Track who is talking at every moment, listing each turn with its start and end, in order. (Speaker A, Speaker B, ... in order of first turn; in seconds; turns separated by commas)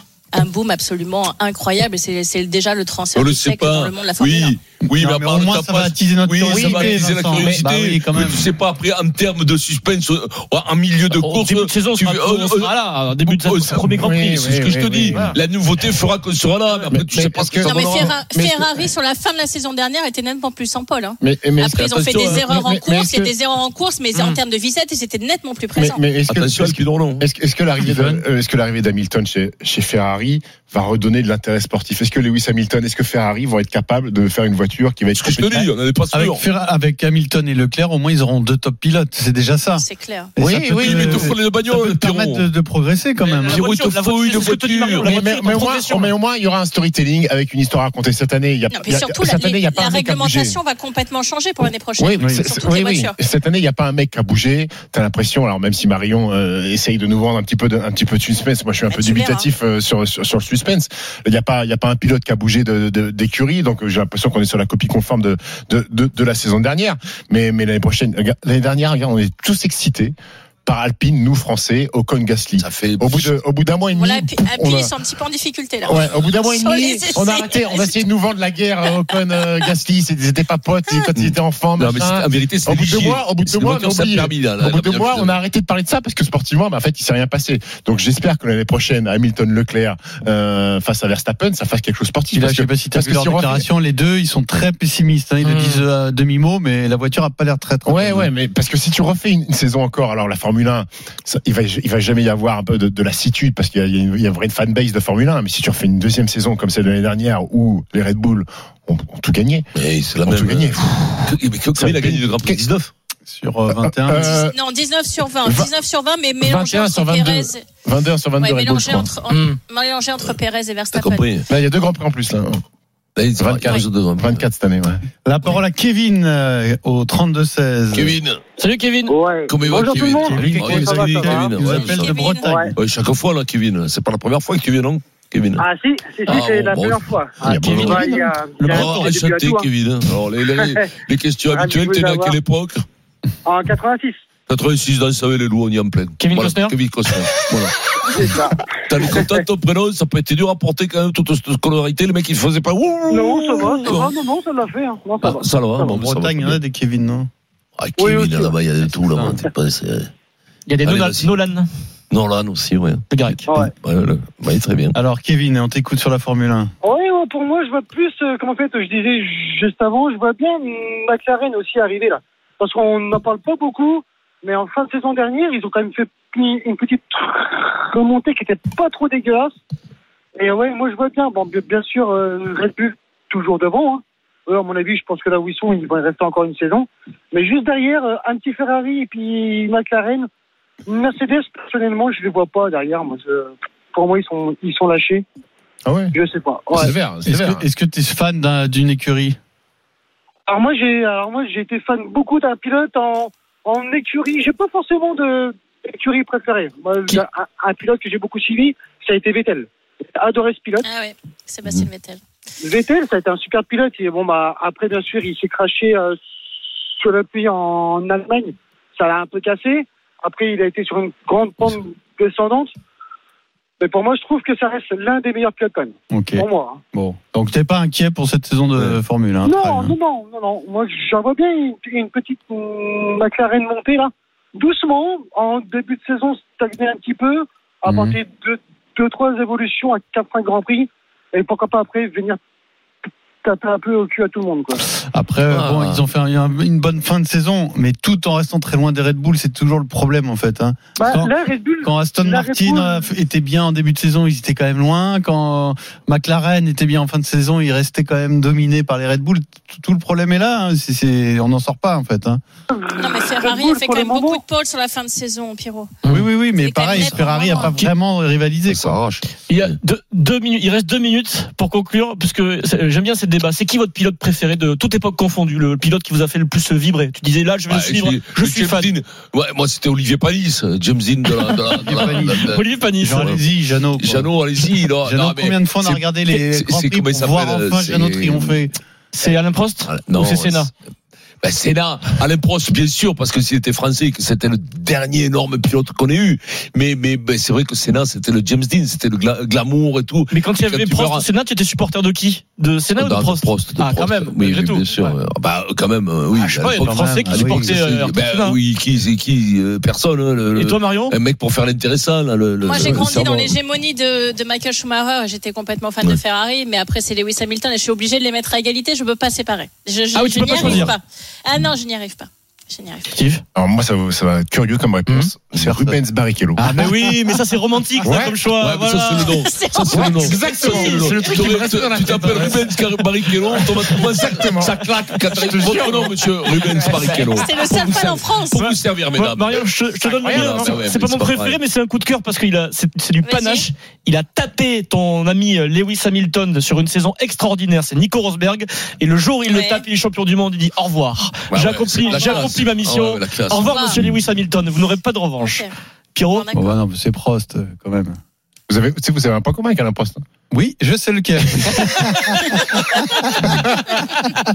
Speaker A: 0.3-4.6, Speaker B: 3.1-13.8, Speaker C: 4.8-8.5, Speaker D: 6.5-7.6, Speaker E: 11.1-15.2, Speaker D: 13.8-15.3, Speaker B: 14.6-18.2, Speaker D: 16.9-18.9, Speaker A: 17.7-26.0, Speaker D: 21.2-23.3, Speaker B: 21.9-22.5, Speaker E: 24.1-24.4, Speaker D: 25.7-35.7, Speaker B: 26.3-27.3, Speaker C: 27.8-28.2, Speaker B: 35.1-36.5, Speaker C: 36.1-39.9, Speaker A: 39.8-40.3, Speaker C: 40.4-43.7, Speaker D: 40.4-41.3, Speaker B: 40.8-42.5, Speaker E: 43.2-46.1, Speaker B: 43.5-45.1, Speaker D: 45.0-50.6, Speaker A: 48.7-53.1, Speaker D: 52.0-70.1, Speaker C: 52.2-52.6, Speaker A: 58.9-59.4, Speaker D: 70.7-74.9, Speaker B: 72.6-73.4, Speaker A: 73.9-77.9, Speaker D: 75.8-93.6, Speaker B: 81.1-85.4, Speaker C: 92.3-98.3, Speaker E: 95.5-95.8, Speaker D: 97.8-109.7, Speaker B: 109.7-112.9, Speaker D: 110.2-112.6, Speaker C: 113.3-114.4, Speaker D: 113.7-114.5, Speaker A: 114.2-117.6, Speaker D: 115.4-115.7, Speaker D: 116.4-119.2, Speaker A: 118.4-121.2, Speaker E: 119.3-119.6, Speaker B: 120.9-121.5, Speaker D: 121.5-122.6, Speaker B: 123.2-124.5, Speaker D: 123.4-125.0, Speaker C: 125.2-128.2, Speaker B: 127.9-128.4, Speaker E: 128.6-129.2, Speaker F: 129.1-131.6, Speaker B: 129.5-135.6, Speaker C: 130.3-132.7, Speaker E: 130.4-131.3, Speaker A: 131.9-132.4, Speaker F: 132.4-132.7, Speaker F: 135.6-139.7, Speaker B: 136.3-137.2, Speaker D: 137.4-137.9, Speaker E: 137.4-139.2, Speaker B: 137.7-138.1, Speaker B: 138.8-142.8, Speaker F: 140.4-140.8, Speaker F: 141.5-142.4, Speaker F: 143.4-144.2, Speaker B: 144.5-148.3, Speaker E: 146.2-146.8, Speaker F: 148.1-149.4, Speaker B: 148.9-154.1, Speaker F: 153.1-156.0, Speaker B: 155.2-156.6, Speaker C: 155.8-157.3, Speaker B: 157.8-160.1, Speaker F: 158.0-158.6, Speaker C: 158.8-159.5, Speaker E: 160.7-161.7, Speaker B: 160.8-161.3, Speaker B: 162.1-164.9, Speaker E: 163.1-163.5, Speaker F: 163.5-163.7, Speaker C: 164.9-166.7, Speaker F: 166.8-179.6, Speaker F: 180.3-190.3, Speaker F: 190.8-195.2, Speaker D: 195.8-196.1, Speaker F: 196.1-196.9, Speaker D: 196.8-197.7, Speaker C: 196.8-199.4, Speaker F: 200.5-210.9, Speaker A: 210.8-212.2, Speaker F: 212.6-216.2, Speaker F: 216.9-222.7, Speaker F: 223.8-226.8, Speaker C: 226.1-230.0, Speaker F: 229.4-242.4, Speaker C: 237.8-238.2, Speaker F: 243.4-244.8, Speaker C: 244.8-262.4, Speaker B: 245.5-246.0, Speaker F: 251.0-253.0, Speaker F: 262.7-264.4, Speaker A: 263.0-265.9, Speaker E: 266.0-266.3, Speaker C: 266.1-269.0, Speaker A: 266.5-267.7, Speaker B: 268.7-269.7, Speaker E: 269.5-278.9, Speaker B: 277.7-288.6, Speaker C: 281.7-288.8, Speaker E: 282.4-283.4, Speaker E: 289.1-290.7, Speaker B: 289.8-290.7, Speaker B: 291.4-301.3, Speaker E: 300.3-305.2, Speaker B: 302.9-313.6, Speaker E: 306.3-308.6, Speaker C: 306.7-307.9, Speaker E: 310.5-311.2, Speaker A: 312.6-323.1, Speaker D: 312.7-313.1, Speaker E: 320.1-320.9, Speaker B: 320.5-320.9, Speaker E: 323.1-323.4, Speaker D: 323.5-326.8, Speaker E: 325.1-325.3, Speaker B: 325.5-326.0, Speaker E: 326.6-329.3, Speaker D: 328.0-328.4, Speaker B: 328.6-339.6, Speaker A: 329.4-331.1, Speaker D: 329.9-337.1, Speaker E: 335.6-336.0, Speaker E: 336.8-356.8, Speaker A: 337.2-338.6, Speaker D: 340.0-340.8, Speaker B: 340.3-341.6, Speaker A: 343.2-343.7, Speaker A: 349.5-349.8, Speaker B: 351.5-354.2, Speaker A: 352.1-352.4, Speaker A: 353.6-354.0, Speaker A: 355.4-355.7, Speaker A: 356.3-356.6, Speaker C: 356.5-358.2, Speaker D: 358.7-360.2, Speaker C: 360.5-362.6, Speaker D: 363.4-363.7